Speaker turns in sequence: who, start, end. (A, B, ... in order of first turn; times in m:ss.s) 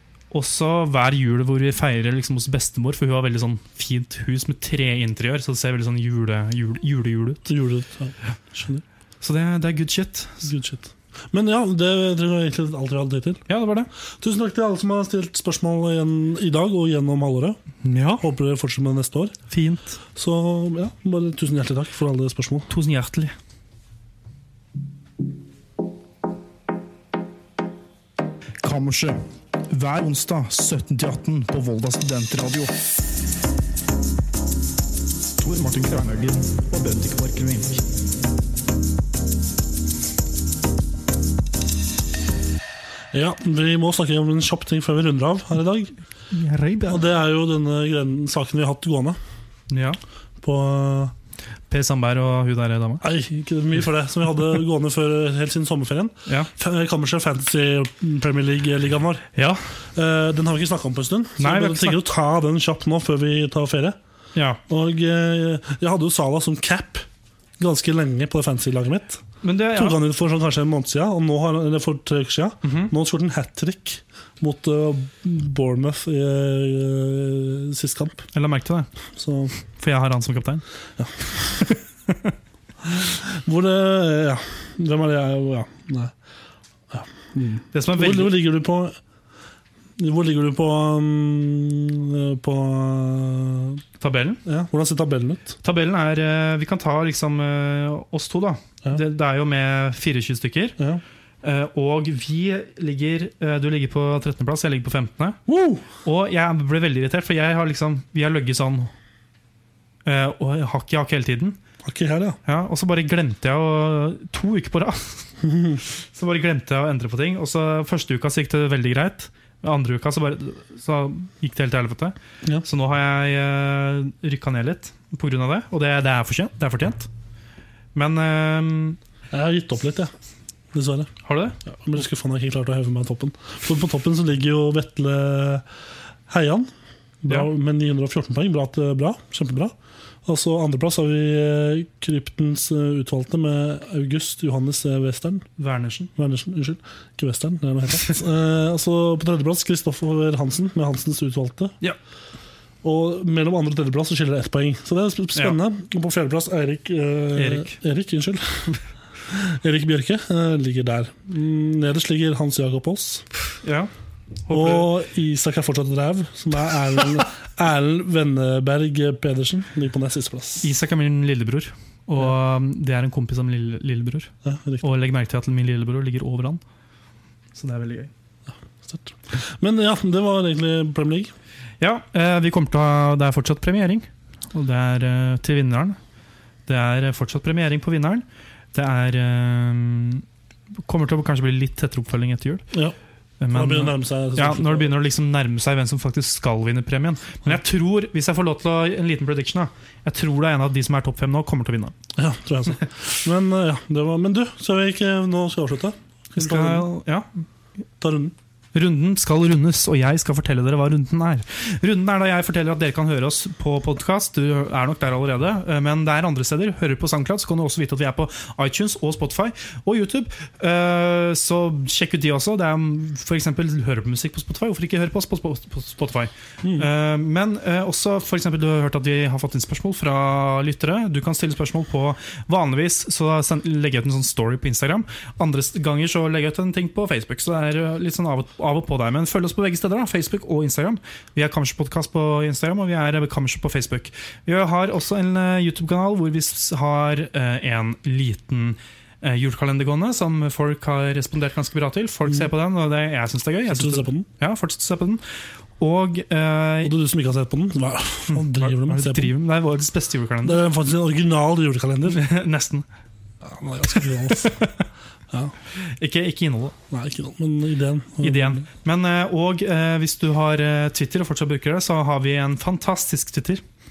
0:00.3-0:07.5 A
0:07.5-0:08.8 B
0:09.2-0:10.5 A
0:10.5-0:13.4 B
0:13.5-0:13.9 A
0:14.2-0:17.6 B
0:17.8-0:18.2 A
0:18.2-0:19.4 B
0:19.5-0:20.0 A
0:20.2-0:22.7 B
0:22.7-0:23.4 A
0:28.6-0:32.7 C
0:35.4-0:37.8 C
0:43.1-0:45.9 B
0:46.3-0:47.1 A
0:46.9-0:49.2 B
0:49.7-0:50.0 A
0:50.4-0:51.1 B
0:51.7-0:53.0 A
0:53.0-0:59.3 B
1:00.0-1:04.0 B
1:01.4-1:02.0 A
1:04.4-1:04.6 A
1:04.7-1:07.1 B
1:07.6-1:18.3 B
1:09.4-1:10.0 A
1:12.6-1:12.9 A
1:18.3-1:18.9 A
1:19.2-1:19.5 B
1:19.8-1:20.6 A
1:21.0-1:21.7 B
1:21.6-1:22.3 A
1:22.8-1:26.1 B
1:26.9-1:29.0 B
1:27.7-1:28.4 A
1:30.0-1:33.8 B
1:34.0-1:34.4 A
1:34.4-1:35.6 B
1:35.6-1:40.8 A
1:41.4-1:45.4 A
1:45.5-1:45.8 B
1:46.0-1:48.9 A
1:50.0-1:51.6 A
1:51.8-1:52.4 B
1:52.5-1:55.2 A
1:55.4-1:55.8 B
1:55.8-2:07.1 A
2:08.0-2:09.0 A
2:09.3-2:10.1 B
2:10.7-2:11.1 B
2:11.2-2:11.6 A
2:11.7-2:15.6 B
2:16.3-2:16.7 B
2:17.2-2:19.7 B
2:20.2-2:25.5 B
2:25.6-2:26.1 A
2:26.2-2:31.8 B
2:32.8-2:38.7 B
2:37.4-2:37.8 A
2:39.3-2:43.3 B
2:43.6-2:43.9 A
2:44.5-2:44.9 A
2:44.5-2:50.7 B
2:50.6-2:54.3 A
2:54.4-2:54.9 B
2:54.8-2:56.6 A
2:57.6-2:58.1 A
2:58.8-3:01.3 B
3:01.8-3:06.0 A
3:06.7-3:10.2 A
3:10.8-3:12.6 A
3:13.4-3:21.9 A
3:13.5-3:15.0 B
3:22.2-3:26.9 B
3:26.4-3:27.3 A
3:28.0-3:28.4 B
3:28.7-4:15.2 A
3:46.6-3:46.9 B
4:13.7-4:14.3 B
4:15.8-4:16.9 A
4:16.8-4:19.4 B
4:18.3-4:20.6 A
4:20.4-4:22.2 B
4:22.0-4:22.9 A
4:23.4-4:24.7 B
4:24.3-4:24.8 A
4:25.8-4:26.7 A
4:26.9-4:28.6 B
4:28.2-4:33.6 A